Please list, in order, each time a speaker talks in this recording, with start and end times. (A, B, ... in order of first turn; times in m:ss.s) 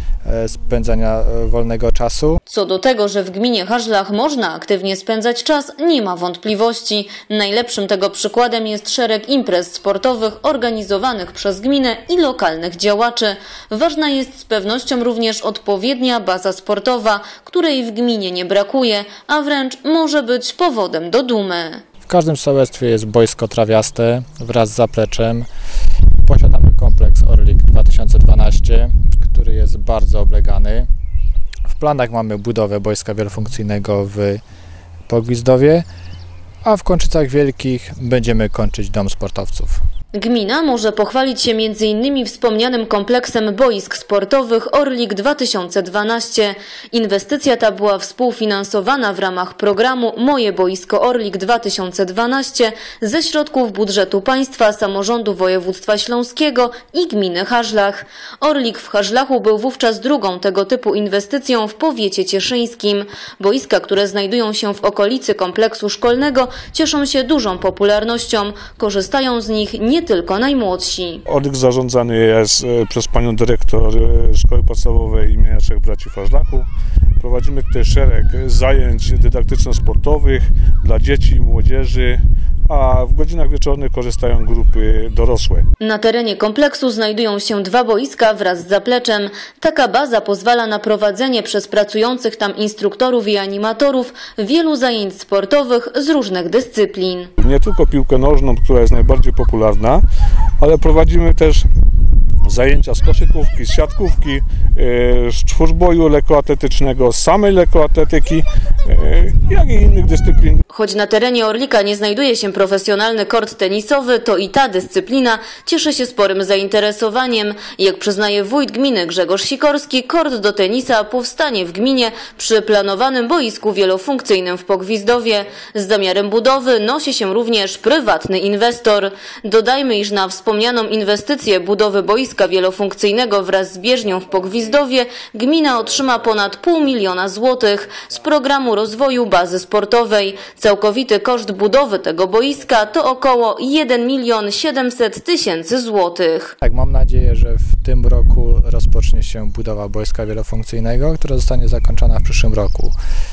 0:00.2-0:02.4 A
0:02.5-0:21.8 B
0:22.1-0:25.5 A
0:26.2-0:30.9 A
0:31.7-0:34.4 A
0:35.1-0:35.8 A
0:36.6-0:39.8 A
0:40.1-1:11.2 B
1:11.3-1:16.7 C
1:17.2-1:25.7 C
1:25.8-1:37.3 B
1:37.4-1:40.0 C
1:40.6-1:41.6 C
1:42.5-1:50.6 C
1:50.7-2:26.6 B
2:26.6-2:33.0 A